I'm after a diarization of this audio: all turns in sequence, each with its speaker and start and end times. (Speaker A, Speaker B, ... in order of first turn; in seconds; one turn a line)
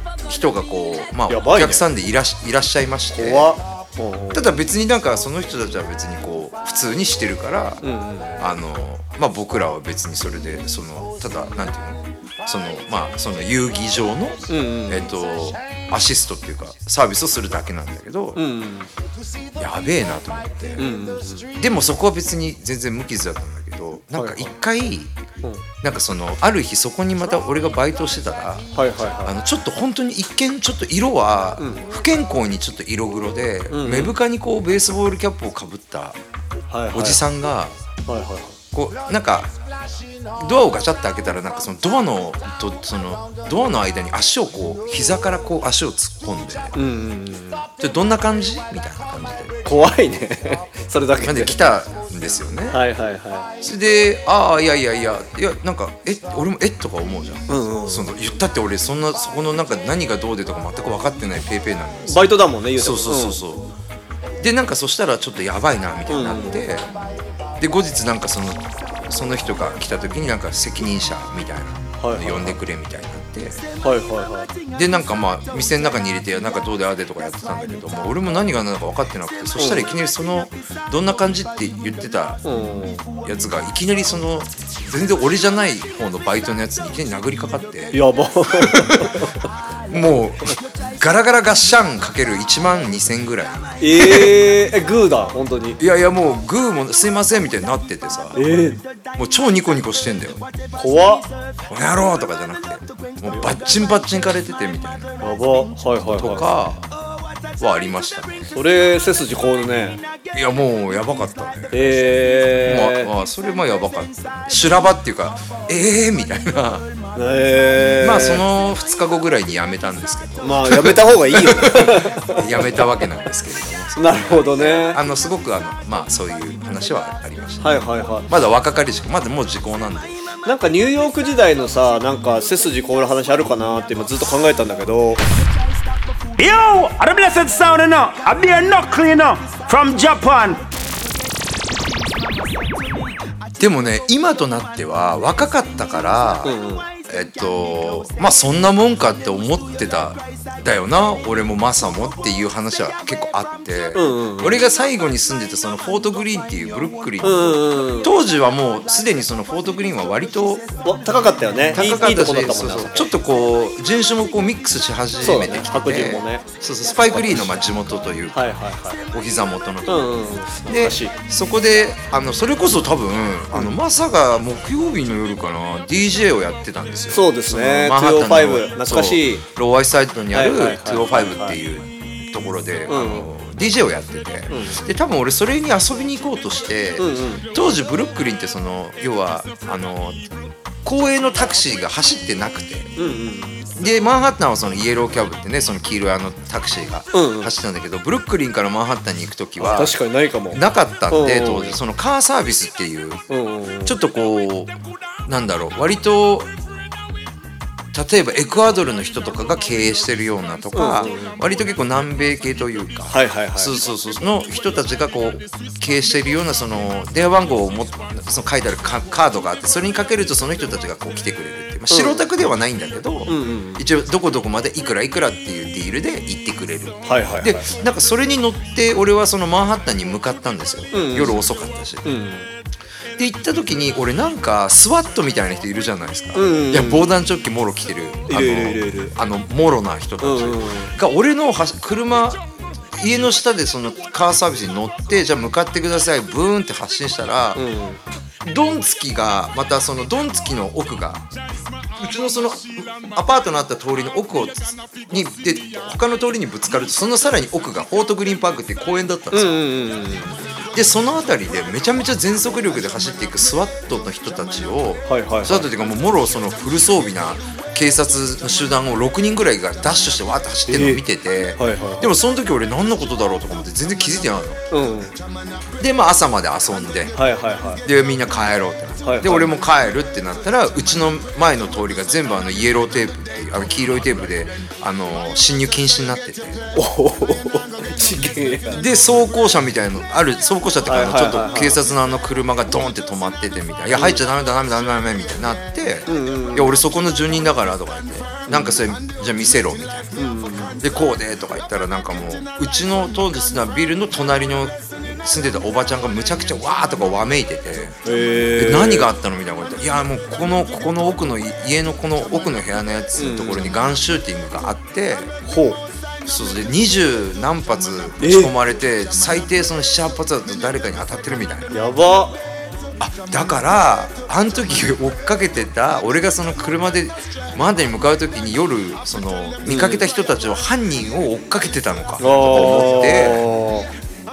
Speaker A: 0.3-3.6
Speaker B: 1.3-1.9
Speaker B: 3.1-4.5
Speaker A: 4.3-7.8
Speaker B: 7.8-8.4
Speaker A: 8.4-18.4
Speaker B: 14.5-15.1
Speaker B: 18.4-18.9
Speaker A: 19.6-20.9
Speaker B: 20.8-21.5
Speaker A: 21.5-25.2
Speaker B: 24.1-24.5
Speaker A: 25.8-28.7
Speaker B: 28.7-29.3
Speaker A: 29.2-36.2
Speaker B: 31.6-31.8
Speaker B: 33.7-34.1
Speaker B: 36.7-37.2
Speaker A: 36.9-37.7
Speaker B: 38.1-38.6
Speaker A: 38.7-39.5
Speaker A: 40.4-46.7
Speaker B: 46.7-47.7
Speaker A: 47.8-49.6
Speaker B: 49.6-51.6
Speaker A: 51.2-52.8
Speaker B: 52.7-53.5
Speaker A: 53.6-63.7
Speaker B: 57.5-58.1
Speaker B: 62.1-63.4
Speaker A: 64.4-66.9
Speaker B: 66.1-66.6
Speaker A: 67.6-73.6
Speaker B: 72.0-72.6
Speaker B: 73.8-74.5
Speaker A: 74.7-82.4
Speaker B: 79.6-79.9
Speaker B: 82.4-83.0
Speaker A: 83.2-88.0
Speaker B: 87.9-89.4
Speaker A: 88.6-89.2
Speaker A: 89.9-94.4
Speaker B: 93.8-95.8
Speaker A: 95.8-98.5
Speaker B: 98.3-98.8
Speaker A: 99.1-100.4
Speaker B: 100.8-101.3
Speaker A: 101.7-105.1
Speaker B: 103.3-103.6
Speaker B: 105.2-106.5
Speaker A: 106.1-106.9
Speaker A: 107.6-108.5
Speaker B: 108.5-110.0
Speaker A: 110.3-116.9
Speaker B: 111.7-113.1
Speaker B: 117.1-118.4
Speaker A: 117.8-130.2
Speaker B: 120.4-122.9
Speaker B: 124.0-125.0
Speaker B: 127.6-128.3
Speaker B: 130.4-135.2
Speaker C: 136.3-140.6
Speaker A: 143.6-146.5
Speaker B: 146.4-146.8
Speaker A: 147.1-160.6
Speaker B: 153.9-154.6
Speaker B: 157.2-158.1
Speaker B: 160.8-163.1
Speaker A: 161.7-168.5
Speaker B: 165.2-166.4
Speaker B: 167.0-167.5
Speaker B: 168.3-169.0
Speaker A: 169.0-190.2
Speaker B: 169.8-171.2
Speaker B: 177.1-179.4
Speaker B: 180.3-181.6
Speaker B: 182.9-183.3
Speaker B: 184.5-184.8
Speaker B: 187.0-187.4
Speaker A: 190.8-192.9
Speaker B: 193.0-193.7
Speaker A: 193.8-199.9
Speaker B: 197.1-197.5
Speaker B: 199.6-201.8
Speaker A: 200.5-203.2
Speaker B: 203.3-203.9
Speaker A: 203.8-204.7
Speaker A: 205.2-206.5
Speaker A: 207.9-232.1
Speaker B: 210.7-211.3
Speaker B: 213.1-213.7
Speaker B: 221.9-222.2
Speaker B: 223.3-223.8
Speaker B: 227.1-227.6
Speaker B: 230.9-231.4
Speaker B: 232.0-232.5
Speaker A: 233.2-242.4
Speaker B: 236.3-237.1
Speaker B: 238.3-239.1
Speaker B: 240.2-240.9
Speaker A: 242.9-247.6
Speaker B: 247.6-248.0
Speaker A: 248.4-251.2
Speaker A: 252.0-259.6
Speaker B: 259.3-260.4
Speaker A: 260.7-274.6
Speaker B: 265.1-265.7
Speaker B: 270.7-271.0
Speaker B: 271.6-272.1
Speaker B: 274.7-275.1
Speaker A: 275.8-277.2
Speaker B: 277.1-277.8
Speaker A: 277.8-286.6
Speaker B: 279.0-279.5
Speaker B: 286.7-288.8
Speaker A: 288.7-300.1
Speaker B: 290.9-291.8
Speaker B: 293.9-294.2
Speaker B: 296.1-296.8
Speaker B: 298.5-298.8
Speaker B: 300.2-300.8
Speaker A: 300.8-308.0
Speaker B: 308.0-309.1
Speaker A: 308.6-315.3
Speaker B: 313.1-313.8
Speaker B: 315.4-315.8
Speaker A: 316.2-321.7
Speaker B: 318.2-318.5
Speaker B: 321.7-322.4
Speaker A: 323.0-333.4
Speaker B: 329.6-330.1
Speaker B: 332.2-333.9